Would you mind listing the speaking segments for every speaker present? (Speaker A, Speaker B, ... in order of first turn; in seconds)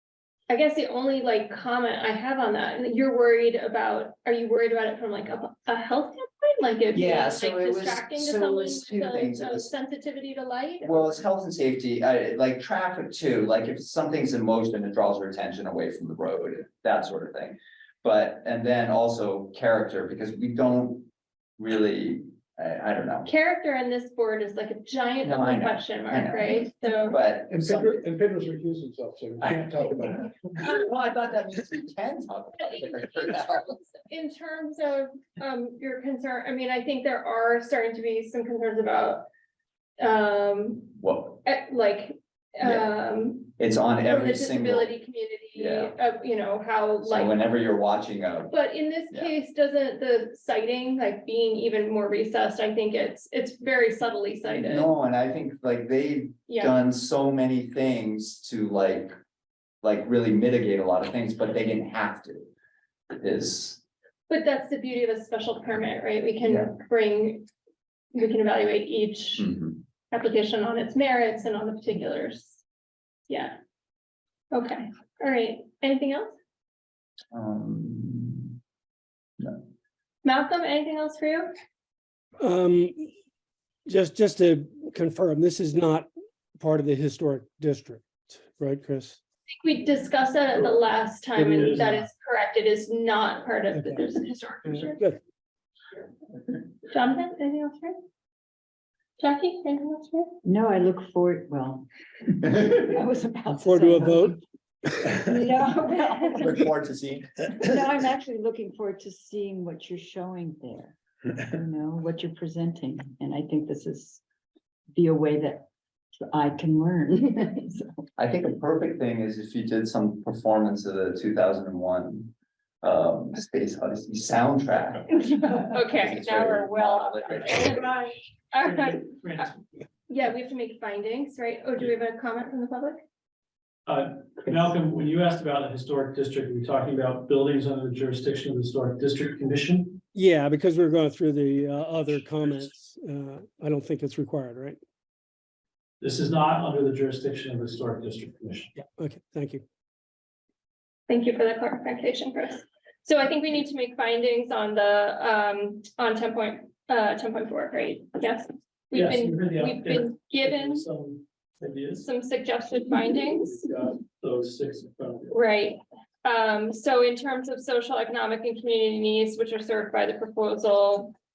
Speaker A: 0.5-11.1, 23.2-27.2, 32.6-39.2, 40.0-40.9, 41.4-43.5, 44.1-47.4, 48.5-54.9, 56.5-56.8, 64.3-67.5, 68.1-69.5, 70.1-72.6, 73.3-73.5, 74.5-76.4, 80.2-81.5, 89.6-95.0, 96.9-97.9, 99.2-100.3, 125.6-129.4, 130.1-133.0, 151.1-160.8, 162.0-163.6, 165.3-171.1
Speaker B: 6.9-9.7, 10.8-23.3, 25.2-28.1, 29.4-29.7, 30.5-33.7, 40.9-41.4, 42.6-42.9, 43.5-44.9, 45.5-46.0, 47.0-48.5, 54.5-59.1, 59.8-62.4, 63.1-63.8, 66.4-66.7, 69.4-69.8, 77.3-78.5, 106.4-107.5, 118.2-128.0
Speaker C: 27.5-30.3
Speaker D: 82.4-83.0, 83.8-89.2, 93.7-94.1, 94.7-95.2, 103.5-104.3, 140.1-144.8, 148.8-149.6
Speaker E: 91.3-92.0, 128.7-129.5, 133.8-140.0, 146.0-148.7, 158.9-162.1, 163.1-165.3
Speaker F: 100.4-104.4, 105.1-106.6, 107.6-114.2, 114.9-115.7, 116.2-118.0